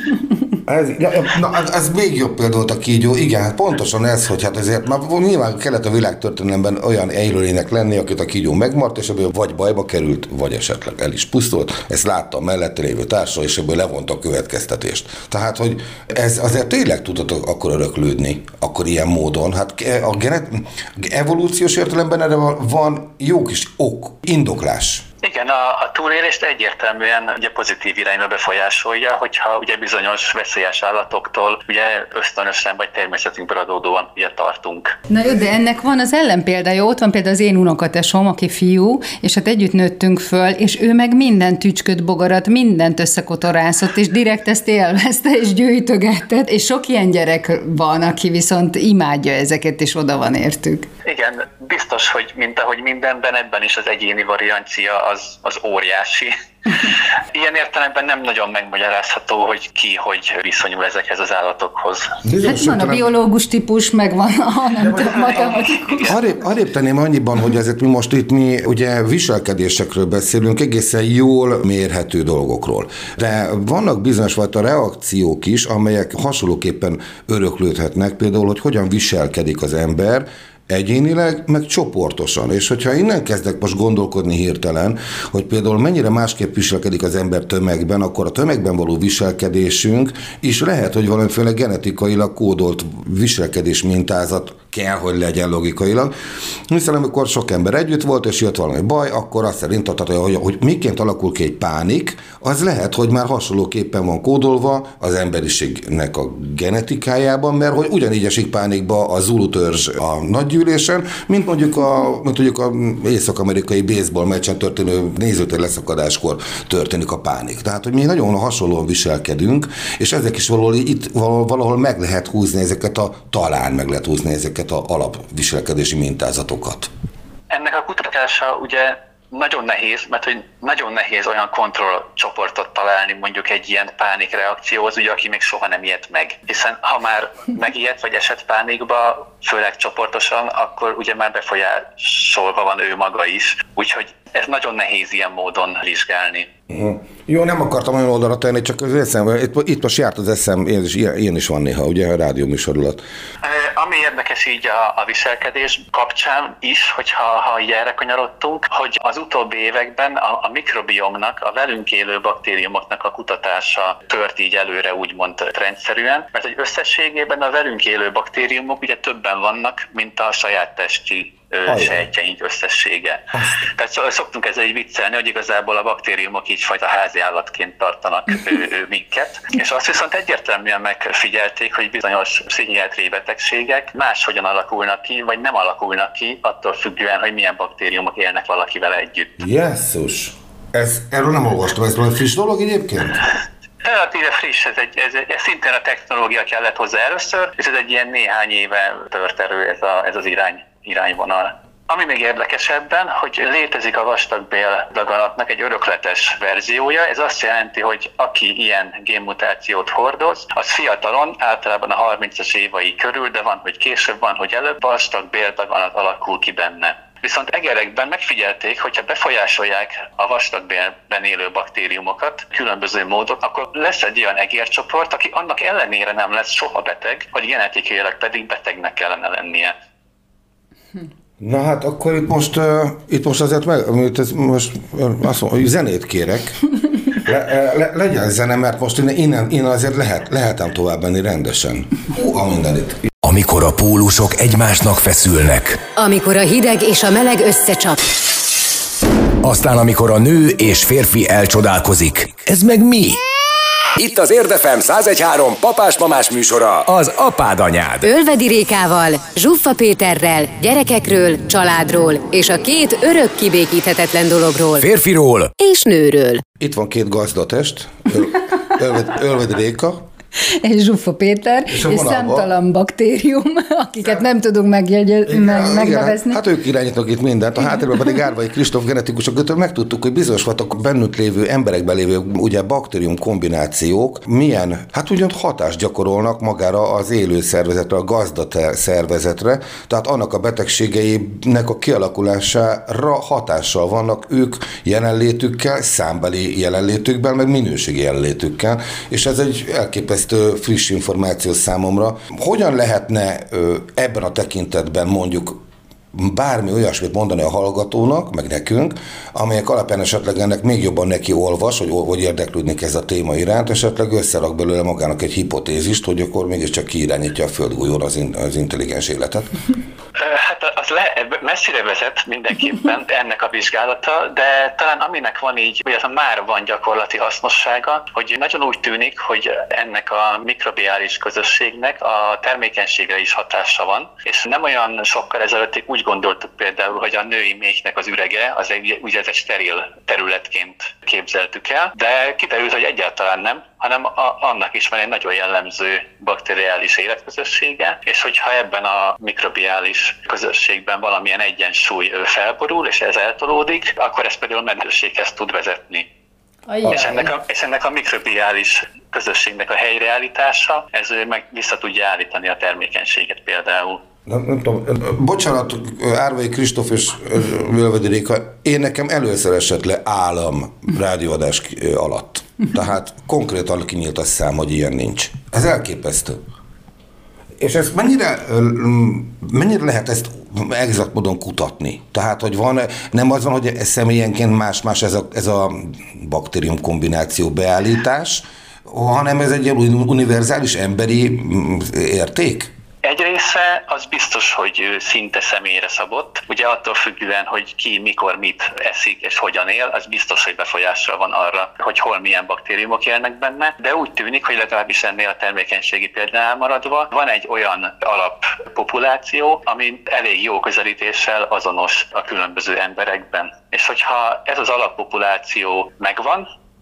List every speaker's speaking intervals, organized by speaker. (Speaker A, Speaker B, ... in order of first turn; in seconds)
Speaker A: 0.7-25.1, 62.2-63.1, 64.8-65.3, 66.0-96.1, 96.7-126.9, 146.7-153.0, 171.7-172.0, 173.3-173.6, 189.4-193.2, 231.4-236.6, 237.1-243.1, 266.6-270.0, 271.7-272.5, 275.2-305.6, 306.1-319.5, 364.3-376.4, 377.6-392.7
Speaker B: 25.2-35.0, 51.0-62.1, 65.2-66.2, 127.5-146.5, 153.4-189.4, 193.8-229.7, 320.1-356.1, 356.9-364.0, 393.0-416.5
Speaker C: 35.1-50.9, 62.4-66.1, 270.4-276.4, 356.7-357.3
Speaker D: 243.2-245.8, 249.4-253.2, 254.0-258.1, 264.8-265.5
Speaker E: 245.9-248.1, 258.0-264.9, 265.6-266.4